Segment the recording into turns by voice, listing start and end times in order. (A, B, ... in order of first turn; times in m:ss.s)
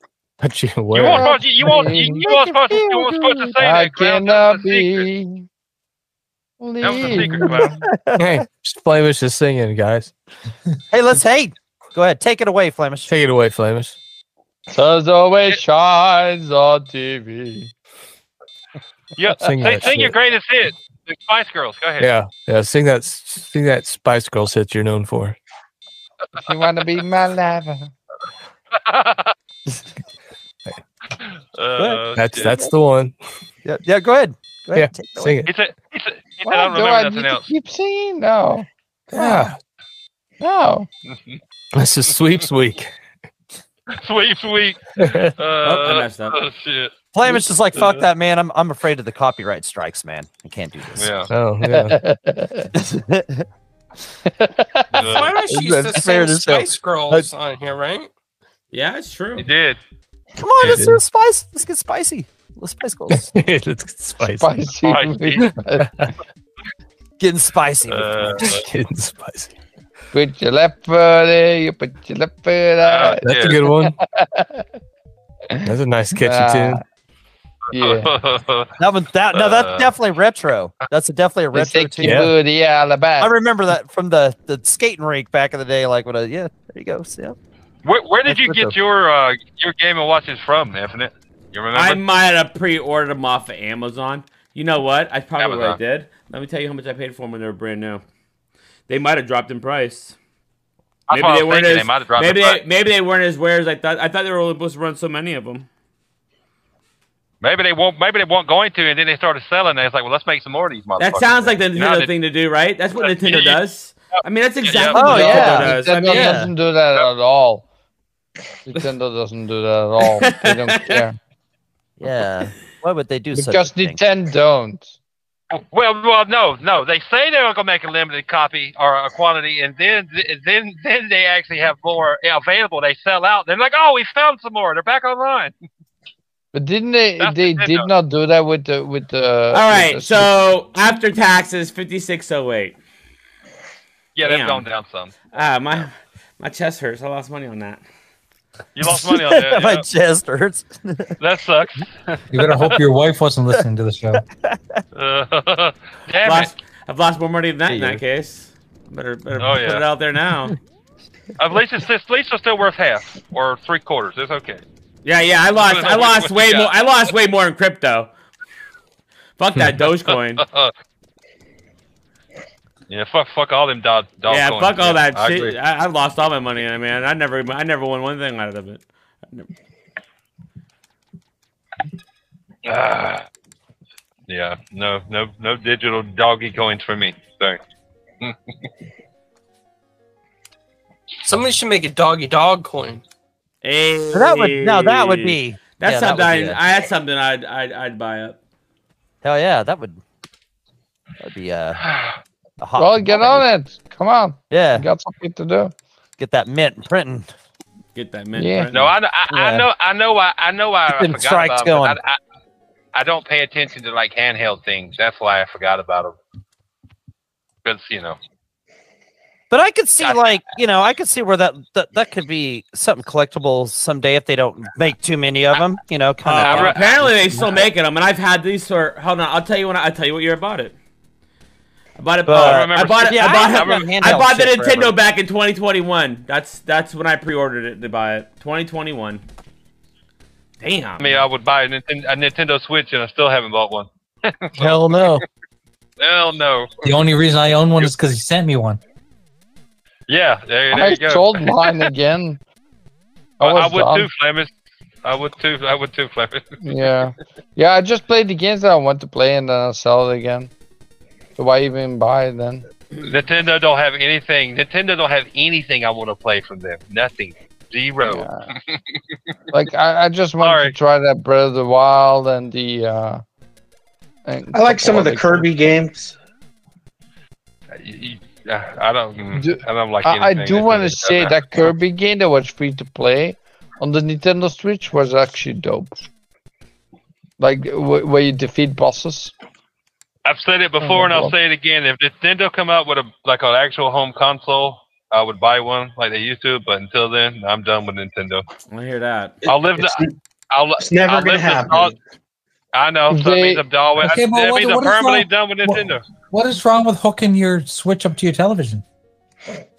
0:00.4-0:01.8 A
0:00.9-0:05.1 B
0:01.1-0:02.3 C
0:02.0-0:03.5 D
0:03.6-0:05.4 C
0:06.6-0:07.6 C
0:06.8-0:07.8 B
0:07.2-0:08.4 D
0:08.2-0:10.1 A
0:10.9-0:13.1 D
0:13.1-0:13.9 A
0:14.7-0:17.7 C
0:19.2-0:22.1 B
0:19.4-0:20.2 A
0:22.0-0:25.4 A
0:26.4-0:27.9 C
0:28.7-0:29.3 B
0:31.5-0:32.6 B
0:31.8-0:32.7 D
0:32.2-0:33.2 A
0:33.6-0:35.5 D
0:34.7-0:35.5 A
0:35.4-0:37.5 B
0:36.4-0:38.7 C
0:39.2-0:39.5 A
0:40.4-0:40.9 C
0:41.7-0:42.9 A
0:43.9-0:44.8 B
0:45.0-0:45.3 A
0:45.4-0:48.0 B
0:45.6-0:46.4 E
0:47.1-0:51.2 D
0:51.0-0:51.3 B
0:51.3-0:52.0 A
0:51.6-0:52.7 C
0:52.7-0:53.4 D
0:54.3-0:55.0 C
0:54.9-0:55.4 B
0:55.0-0:58.1 F
0:55.4-0:57.3 D
0:58.7-0:59.5 E
0:59.4-0:59.8 B
1:00.4-1:03.3 D
1:00.6-1:01.0 A
1:03.1-1:04.6 A
1:04.4-1:06.1 C
1:04.8-1:05.5 B
1:05.5-1:05.9 A
1:07.2-1:08.2 D
1:07.9-1:08.6 B
1:08.4-1:09.5 A
1:10.1-1:14.7 C
1:12.8-1:13.6 B
1:13.2-1:14.0 A
1:15.6-1:16.8 A
1:16.2-1:16.8 C
1:17.7-1:18.1 C
1:17.7-1:18.7 B
1:18.8-1:22.3 D
1:19.3-1:19.9 B
1:21.5-1:23.3 C
1:22.0-1:22.3 A
1:23.2-1:27.4 D
1:27.8-1:32.0 B
1:28.3-1:28.8 D
1:31.7-1:38.0 E
1:35.4-1:35.8 B
1:38.9-1:40.2 E
1:41.1-1:42.6 B
1:41.1-1:45.7 E
1:47.4-1:52.1 B
1:51.0-1:56.4 E
1:53.0-1:53.6 B
1:54.2-1:55.2 B
1:54.9-1:56.5 D
1:55.0-1:57.6 C
1:58.7-2:01.2 C
2:00.0-2:01.0 E
2:02.0-2:04.0 D
2:03.3-2:04.9 C
2:05.5-2:15.5 B
2:16.5-2:20.3 C
2:17.2-2:17.9 B
2:19.5-2:22.8 E
2:24.2-2:25.2 B
2:24.2-2:24.6 E
2:25.3-2:27.8 E
2:28.7-2:29.9 B
2:28.8-2:31.2 D
2:31.2-2:32.7 B
2:32.3-2:34.2 G
2:34.4-2:34.8 D
2:34.9-2:36.5 B
2:36.2-2:40.6 E
2:37.7-2:38.0 D
2:39.4-2:39.8 B
2:41.4-2:44.6 B
2:45.0-2:48.1 E
2:45.6-2:46.7 B
2:49.4-2:50.4 E
2:50.4-2:50.7 B
2:52.9-2:55.6 B
2:54.3-2:59.5 E
3:02.6-3:03.3 B
3:04.3-3:07.6 B
3:11.2-3:13.0 F
3:13.6-3:18.4 E
3:14.1-3:16.6 D
3:19.2-3:20.0 D
3:21.2-3:21.8 D
3:21.8-3:22.2 B
3:22.6-3:23.4 D
3:22.8-3:25.7 C
3:24.5-3:24.9 D
3:26.2-3:27.3 D
3:27.9-3:28.9 E
3:28.4-3:28.7 C
3:28.7-3:32.2 B
3:29.3-3:29.7 D
3:30.9-3:32.0 D
3:32.9-3:36.2 B
3:37.6-3:38.2 B
3:39.5-3:47.7 D
3:40.0-3:40.4 B
3:46.2-3:50.7 E
3:46.4-3:47.0 B
3:52.0-3:59.2 E
3:52.3-3:54.9 D
3:52.4-3:53.9 B
4:00.6-4:01.2 E
4:01.0-4:04.8 B
4:04.6-4:05.2 D
4:06.0-4:06.7 B
4:06.8-4:08.8 G
4:10.1-4:11.9 B
4:10.7-4:12.4 C
4:13.4-4:14.1 C
4:13.4-4:14.5 B
4:15.0-4:16.6 B
4:16.6-4:20.5 C
4:21.4-4:22.6 C
4:23.0-4:28.8 B
4:28.0-4:28.5 C
4:29.5-4:33.2 C
4:30.4-4:30.7 B
4:34.3-4:35.6 C
4:34.5-4:36.2 H
4:37.8-4:41.7 B
4:39.3-4:45.9 C
4:47.4-4:49.3 C
4:50.2-4:58.4 B
4:50.8-4:51.3 C
4:58.7-4:59.4 E
4:59.4-5:00.1 H
4:59.4-5:01.9 B
5:00.8-5:02.0 H
5:02.7-5:06.0 B
5:03.1-5:03.6 C
5:04.0-5:08.8 G